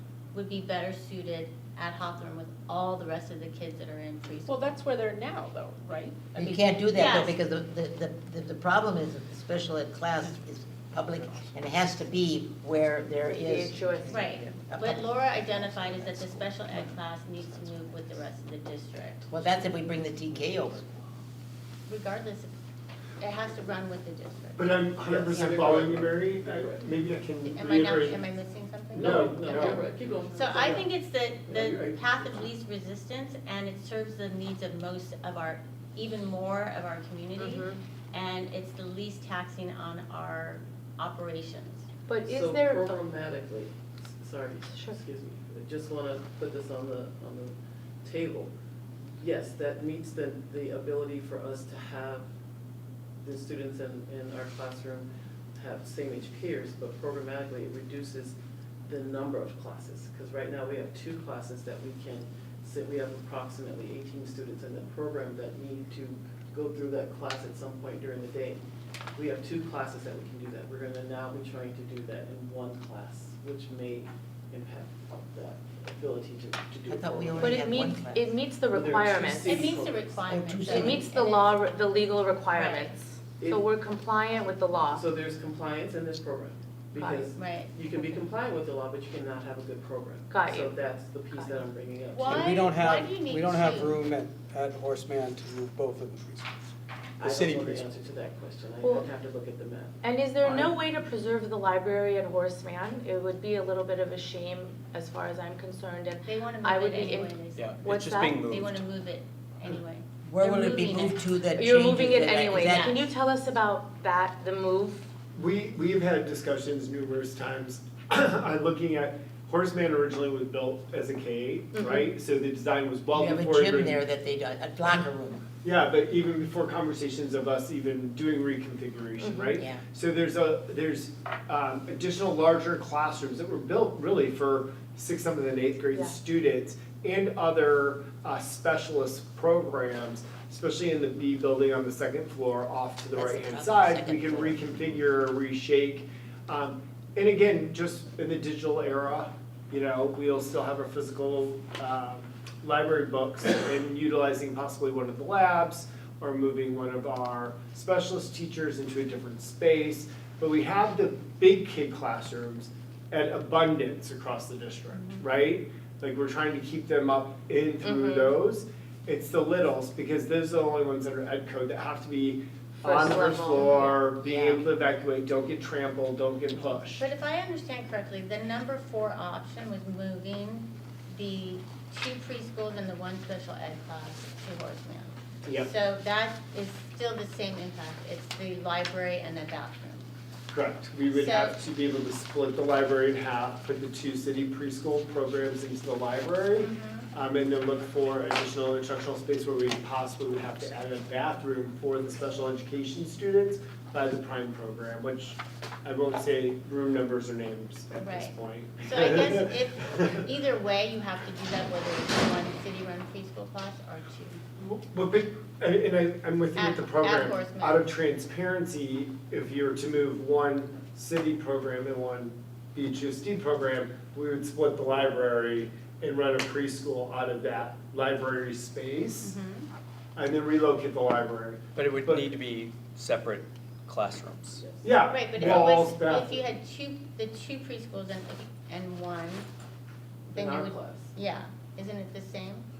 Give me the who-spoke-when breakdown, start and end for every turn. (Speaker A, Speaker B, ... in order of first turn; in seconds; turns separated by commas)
Speaker A: 0.3-4.8, Speaker B: 4.5-6.6, Speaker C: 6.3-16.8, Speaker A: 6.9-7.4, Speaker D: 13.3-14.2, Speaker A: 14.1-19.3, Speaker C: 19.3-20.9, Speaker A: 21.9-22.5, Speaker A: 23.2-24.8, Speaker E: 24.6-28.2, Speaker F: 25.0-26.8, Speaker A: 27.4-41.9, Speaker F: 28.9-30.9, Speaker E: 28.9-29.8, Speaker F: 31.5-32.5, Speaker D: 37.4-37.8, Speaker D: 42.1-43.0, Speaker F: 42.2-48.5, Speaker D: 44.7-45.0, Speaker F: 49.2-52.3, Speaker F: 53.2-68.6, Speaker F: 69.2-77.7, Speaker C: 76.9-78.3, Speaker D: 77.4-79.7, Speaker F: 78.7-80.2, Speaker A: 79.4-83.0, Speaker C: 80.3-81.0, Speaker D: 80.7-85.0, Speaker F: 83.4-83.7, Speaker F: 84.8-92.4, Speaker D: 87.0-87.3, Speaker A: 87.3-88.1, Speaker D: 90.3-90.8, Speaker A: 92.1-94.0, Speaker G: 92.3-96.7, Speaker F: 97.2-100.8, Speaker H: 97.2-97.9, Speaker G: 97.3-97.8, Speaker D: 98.8-99.1, Speaker D: 100.0-108.5, Speaker A: 106.3-107.8, Speaker H: 107.5-108.9, Speaker A: 108.5-111.2, Speaker C: 110.2-113.0, Speaker D: 111.5-115.0, Speaker A: 112.6-113.1, Speaker E: 115.3-124.0, Speaker D: 121.8-122.1, Speaker C: 123.1-125.4, Speaker E: 125.6-177.1, Speaker D: 129.2-129.6, Speaker C: 143.1-144.6, Speaker A: 164.9-165.2, Speaker D: 167.8-168.3, Speaker D: 172.8-173.8, Speaker A: 173.5-174.0, Speaker A: 176.9-190.1, Speaker E: 185.4-185.7, Speaker E: 190.5-210.2, Speaker A: 191.1-191.6, Speaker A: 196.6-197.1, Speaker A: 208.0-214.4, Speaker E: 214.6-229.4, Speaker A: 216.6-217.9, Speaker A: 229.2-229.7, Speaker E: 230.2-232.3, Speaker H: 231.8-234.6, Speaker F: 234.6-234.9, Speaker E: 234.8-236.4, Speaker A: 235.1-239.5, Speaker F: 240.3-241.1, Speaker A: 240.3-242.7